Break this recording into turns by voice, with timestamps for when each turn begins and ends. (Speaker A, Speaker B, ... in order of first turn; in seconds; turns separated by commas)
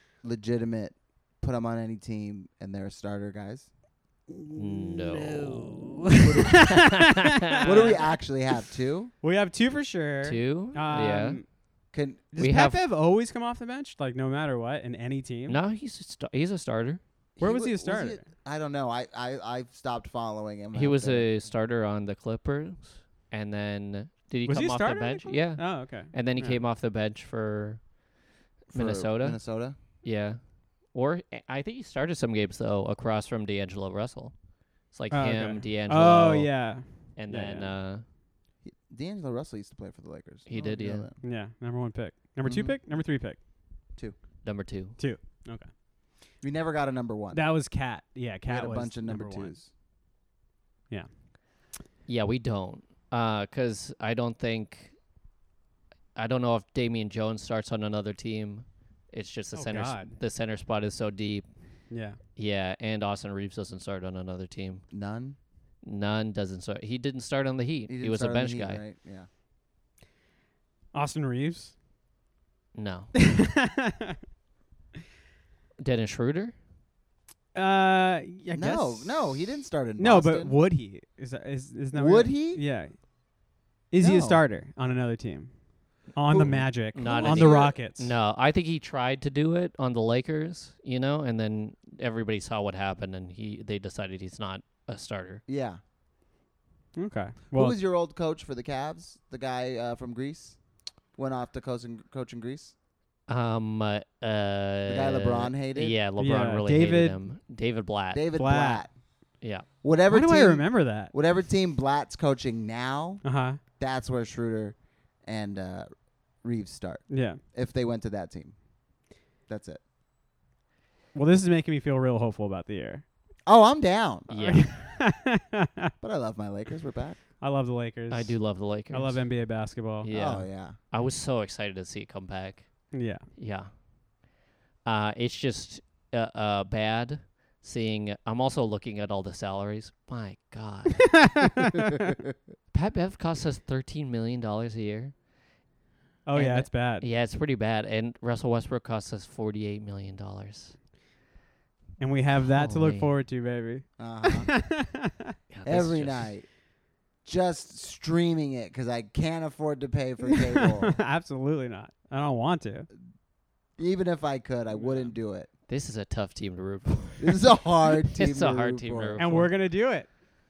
Speaker A: 0.2-3.7, Speaker B: 4.3-8.0, Speaker C: 4.5-8.0, Speaker A: 6.2-6.8, Speaker A: 7.6-9.1, Speaker B: 9.2-11.5, Speaker C: 10.2-11.4, Speaker A: 11.9-12.3, Speaker B: 12.3-15.6, Speaker C: 12.4-12.8, Speaker C: 15.5-17.0, Speaker A: 17.4-21.3, Speaker B: 17.4-18.2, Speaker C: 20.7-27.8, Speaker B: 24.4-26.6, Speaker C: 28.7-29.4, Speaker A: 28.7-29.8, Speaker C: 30.0-30.4, Speaker C: 30.9-34.3, Speaker C: 34.9-38.0, Speaker B: 35.1-37.7, Speaker A: 38.6-41.2, Speaker C: 40.5-41.1, Speaker B: 41.2-43.4, Speaker A: 42.4-42.8, Speaker C: 44.4-45.0, Speaker B: 45.0-45.7, Speaker A: 46.4-47.4, Speaker B: 47.3-49.6, Speaker A: 48.5-49.7, Speaker C: 52.1-55.0, Speaker C: 56.2-61.5, Speaker B: 59.5-60.1, Speaker B: 61.9-62.2, Speaker C: 62.4-64.8, Speaker A: 64.9-65.4, Speaker C: 65.8-68.8, Speaker A: 67.9-69.3, Speaker B: 70.9-71.8, Speaker C: 72.8-73.1, Speaker B: 73.1-74.2, Speaker C: 75.8-76.5, Speaker B: 77.5-79.4, Speaker A: 78.5-80.6, Speaker B: 80.0-83.0, Speaker A: 81.9-82.6, Speaker B: 83.9-85.5, Speaker A: 84.0-84.4, Speaker B: 86.1-88.1, Speaker A: 86.3-87.8, Speaker C: 87.0-95.4, Speaker A: 95.5-95.8, Speaker B: 97.0-97.8, Speaker A: 97.5-100.6, Speaker A: 101.2-102.8, Speaker C: 103.3-108.3, Speaker A: 104.9-106.0, Speaker B: 106.2-107.2, Speaker A: 108.1-108.9, Speaker B: 108.4-108.8, Speaker C: 109.4-109.7, Speaker A: 109.8-113.2, Speaker B: 110.1-111.1, Speaker B: 113.2-113.6, Speaker A: 113.8-115.9, Speaker A: 116.4-118.5, Speaker B: 117.1-117.4, Speaker A: 119.5-119.8, Speaker B: 121.1-123.0, Speaker A: 123.5-124.3, Speaker C: 124.3-124.7, Speaker B: 124.4-125.9, Speaker A: 126.0-127.2, Speaker B: 127.4-130.1, Speaker C: 128.1-129.3, Speaker C: 130.0-133.7, Speaker A: 130.1-130.8, Speaker B: 132.9-133.2, Speaker C: 134.8-141.4, Speaker B: 141.0-142.1, Speaker C: 142.7-145.1, Speaker B: 146.3-147.1, Speaker C: 146.3-150.8, Speaker B: 152.0-155.3, Speaker C: 152.4-153.1, Speaker A: 154.0-154.5, Speaker C: 155.5-156.2, Speaker A: 155.7-156.5, Speaker A: 157.2-161.0, Speaker B: 160.3-162.9, Speaker A: 163.8-165.5, Speaker B: 164.8-165.1, Speaker C: 165.7-169.5, Speaker A: 167.2-169.2, Speaker B: 169.2-170.1